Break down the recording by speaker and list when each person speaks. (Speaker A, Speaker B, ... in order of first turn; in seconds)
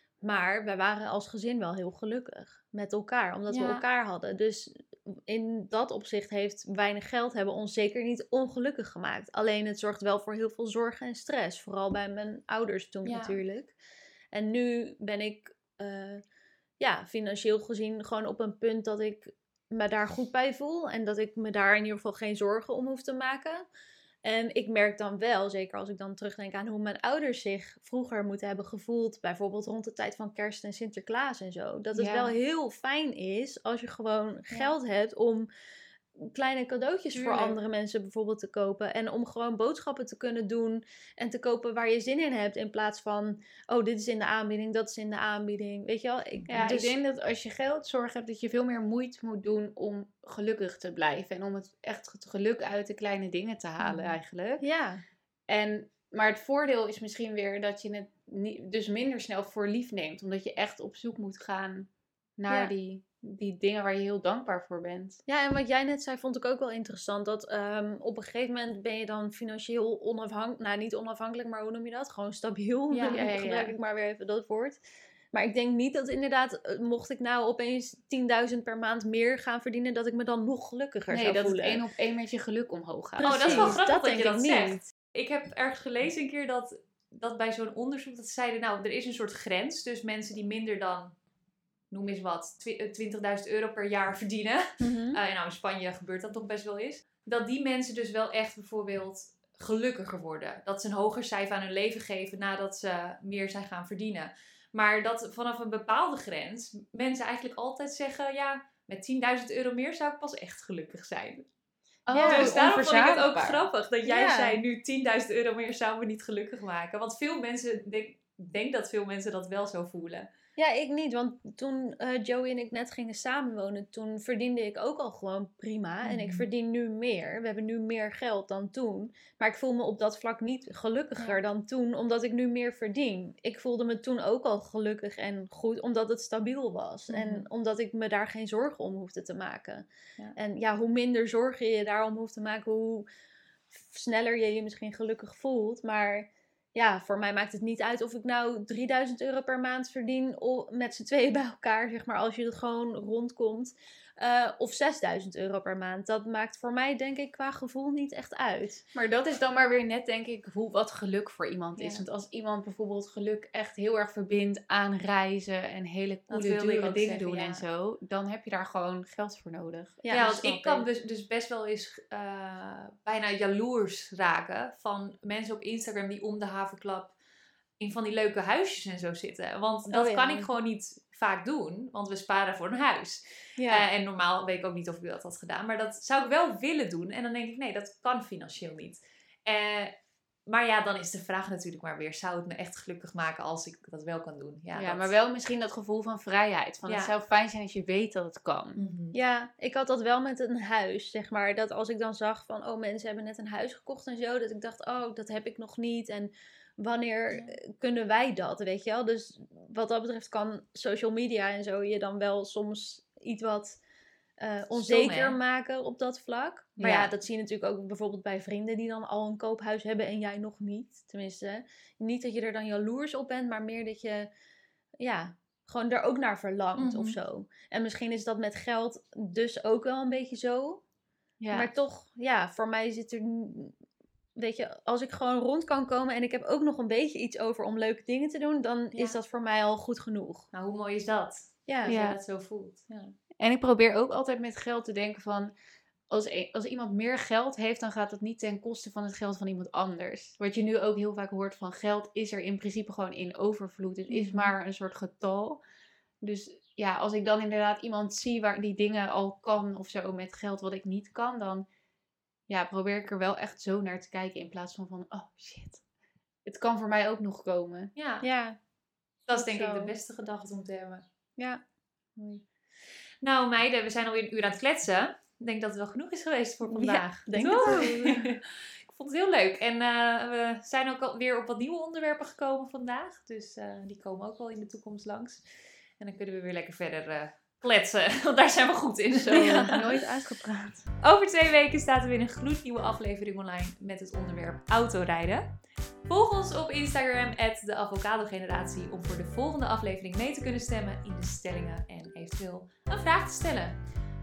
Speaker A: 0.2-13.7, 14.3-16.2, 16.8-23.6, 24.2-35.5, 36.2-46.9, 54.6-55.0, 65.3-74.8, 75.3-81.8, 83.2-84.8, 94.8-95.2, 112.1-112.5, 114.0-114.6, 120.6-143.1, 143.7-158.8, 161.8-162.0, 166.3-167.3, 170.0-170.8, 179.9-180.4, 183.6-183.8, 199.1-213.8, 214.4-224.3, 225.0-230.8, 231.5-233.8, 234.4-240.5, 241.7-241.9, 254.1-254.4, 268.2-268.6, 269.3-269.9, 276.7-278.2, 289.3-289.8
Speaker B: 3.5-3.8, 13.0-13.4, 46.4-46.6, 72.9-73.2, 83.2-91.1, 91.9-111.5, 112.2-120.3, 126.0-126.4, 137.1-137.4, 167.3-167.6, 170.1-177.1, 177.8-189.9, 190.5-195.1, 196.9-197.1, 198.8-199.2, 214.7-215.4, 226.8-227.2, 240.5-243.2, 267.9-268.2, 269.3-271.0, 272.2-272.4, 273.2-285.5, 286.0-289.9, 291.0-303.8
Speaker C: 31.9-32.4, 37.1-37.6, 46.5-54.6, 55.5-65.2, 73.0-73.7, 81.1-83.7, 112.1-113.7, 158.9-170.2, 194.7-198.8, 231.4-231.7, 241.8-242.2, 243.4-245.5, 246.1-255.6, 256.2-261.6, 262.5-265.8, 266.4-267.9, 277.6-278.0, 289.3-290.8